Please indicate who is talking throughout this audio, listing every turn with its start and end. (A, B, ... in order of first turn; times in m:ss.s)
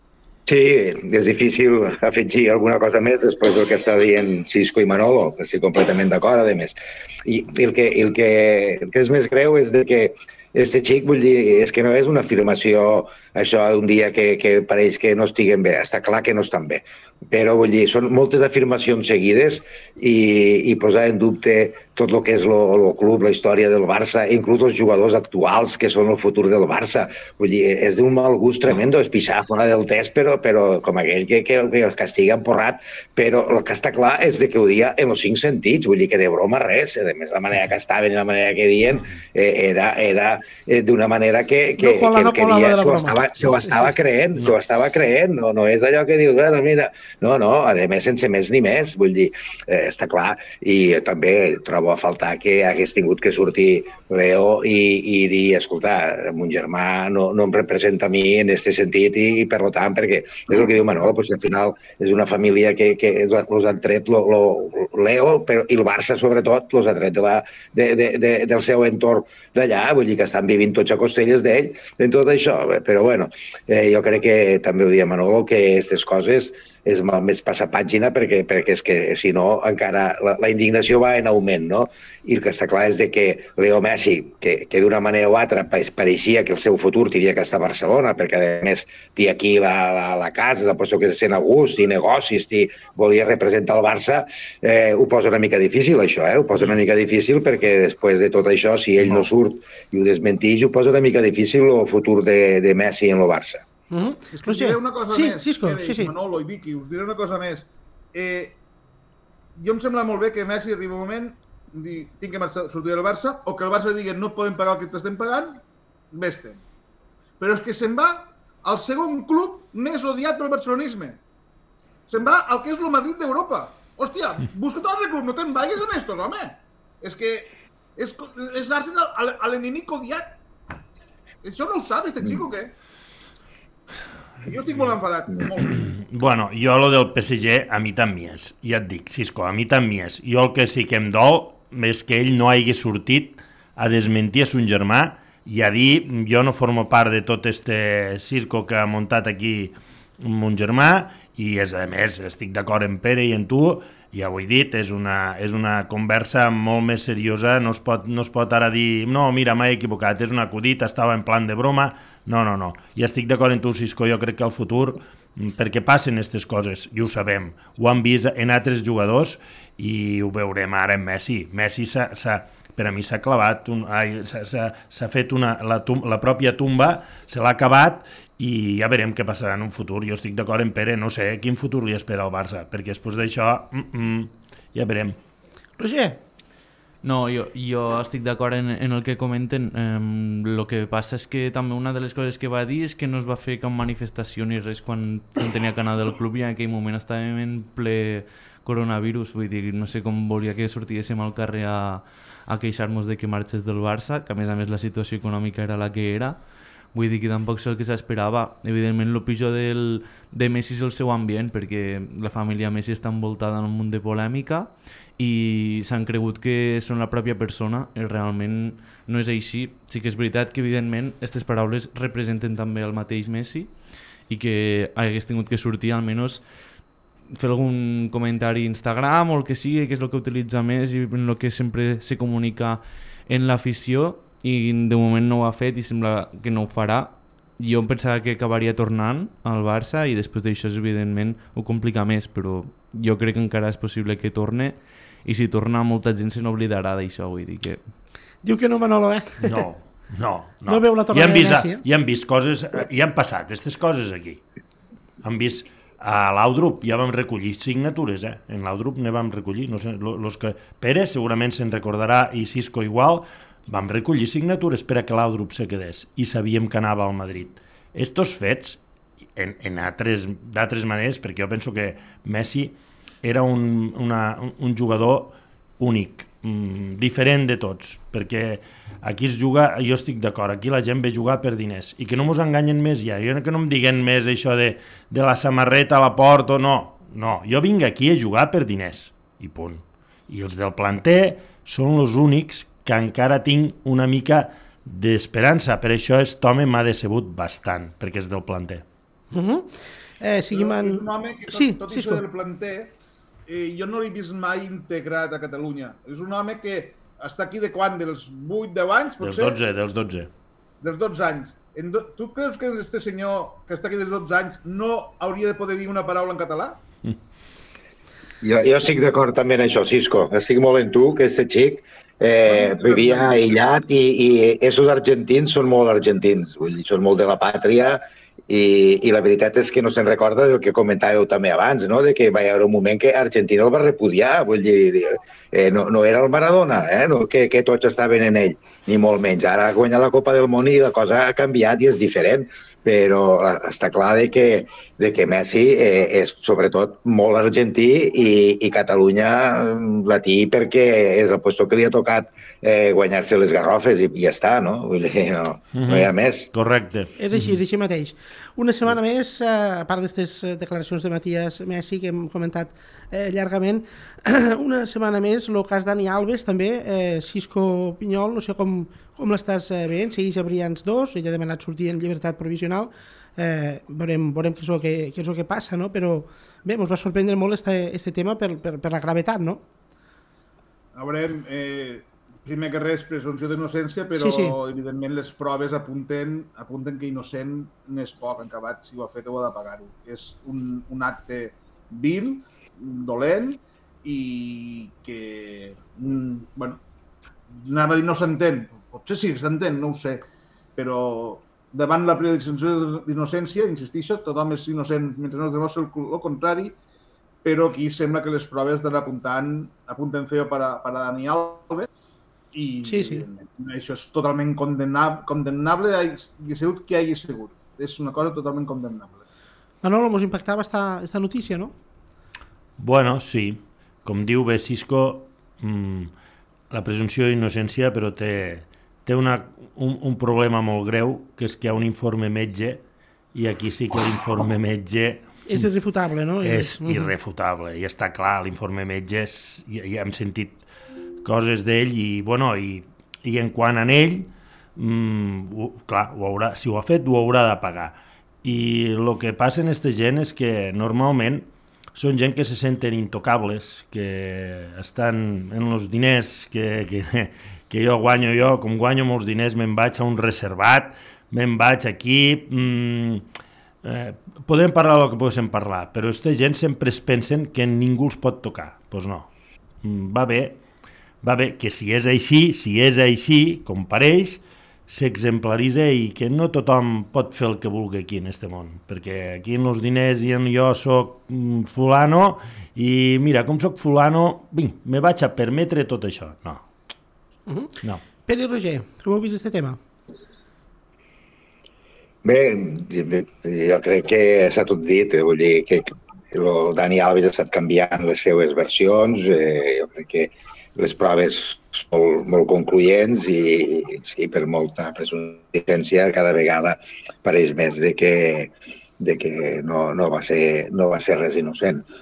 0:00.5-1:43.6 A
0:41.8-0:43.9 B
1:43.9-1:46.1 B
1:44.3-1:48.6 C
1:49.6-1:56.6 C
1:57.4-2:01.2 C
2:02.1-2:10.4 C
2:11.4-2:12.7 C
2:14.4-2:15.9 C
2:15.9-3:05.2 D
3:05.8-3:06.2 B
3:07.0-3:26.4 E
3:26.9-3:43.8 E
3:44.3-3:46.4 E
3:47.3-4:07.8 E
4:08.4-4:09.6 B
4:09.4-4:14.4 D
4:10.7-4:11.8 B
4:15.2-4:28.8 D
4:29.4-4:58.8 D
4:59.3-5:02.2 B
5:00.5-5:09.6 C
5:09.2-5:10.3 D
5:10.8-5:16.8 C
5:18.4-5:56.5 A
5:22.5-5:23.5 C
5:55.8-5:57.6 D
5:57.2-6:19.6 B
6:20.9-6:36.8 C
6:24.2-6:24.6 B
6:37.5-6:40.2 C
6:40.8-6:46.8 C
6:47.4-6:51.9 C
6:52.5-6:59.2 C
6:52.8-6:53.2 B
6:59.8-7:01.8 B
7:02.8-7:06.1 D
7:06.7-7:12.8 D
7:13.3-7:15.7 D
7:15.5-7:17.1 B
7:16.4-7:20.6 D
7:21.2-7:43.3 D
7:43.8-7:49.3 D
7:49.8-7:50.6 D
7:51.2-8:06.6 D
8:07.5-8:07.7 B
8:08.3-8:09.8 B
8:12.2-8:31.8 A